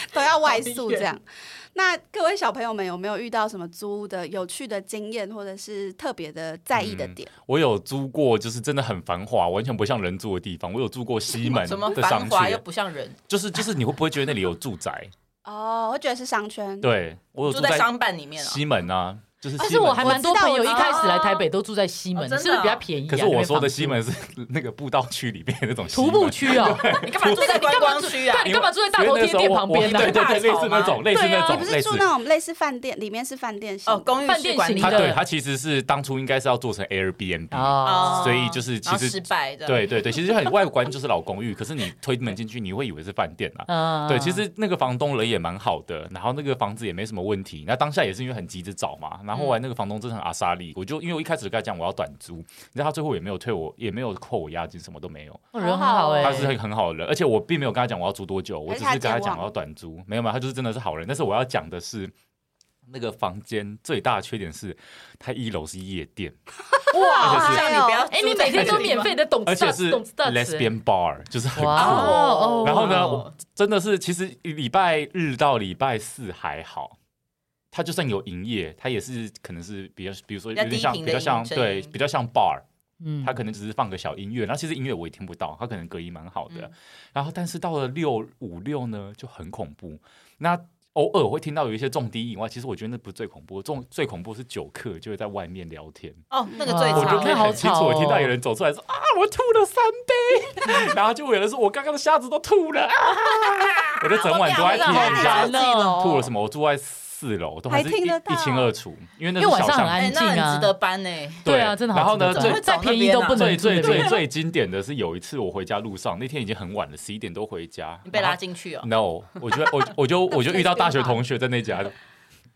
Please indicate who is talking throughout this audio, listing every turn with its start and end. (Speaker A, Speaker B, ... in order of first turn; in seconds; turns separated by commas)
Speaker A: 0.1-7.3, Speaker B: 0.4-1.1, Speaker C: 6.7-12.6, Speaker B: 11.4-13.2, Speaker C: 13.3-15.1, Speaker A: 15.4-16.9, Speaker C: 16.8-20.4, Speaker B: 17.4-18.6, Speaker A: 19.6-21.4, Speaker D: 19.6-24.0, Speaker B: 20.6-21.2, Speaker B: 22.1-22.9, Speaker C: 23.1-32.1, Speaker D: 25.9-30.2, Speaker B: 26.8-28.5, Speaker B: 29.8-31.0, Speaker A: 31.1-34.1, Speaker B: 33.9-35.1, Speaker D: 34.2-35.2, Speaker C: 34.8-55.5, Speaker D: 37.5-38.3, Speaker B: 37.8-39.9, Speaker D: 43.7-44.4, Speaker B: 49.3-49.6, Speaker D: 55.5-56.5, Speaker A: 55.6-56.5, Speaker C: 56.2-62.1, Speaker A: 58.7-59.5, Speaker C: 62.9-66.3, Speaker A: 66.9-68.1, Speaker D: 66.9-70.7, Speaker B: 67.2-69.1, Speaker C: 67.2-67.7, Speaker C: 68.5-76.9, Speaker D: 71.5-73.2, Speaker B: 71.7-73.3, Speaker C: 77.7-82.6, Speaker B: 80.5-81.9, Speaker D: 83.0-83.3, Speaker C: 83.2-96.2, Speaker B: 96.3-97.6, Speaker D: 96.6-98.3, Speaker C: 96.9-110.2, Speaker B: 103.2-105.7, Speaker A: 104.5-105.9, Speaker D: 104.8-106.2, Speaker A: 107.7-108.7, Speaker D: 109.4-110.7, Speaker B: 110.0-111.5, Speaker C: 111.4-112.7, Speaker D: 111.4-114.2, Speaker B: 112.3-114.1, Speaker C: 113.3-121.9, Speaker B: 118.0-118.9, Speaker B: 119.5-119.8, Speaker A: 120.6-121.1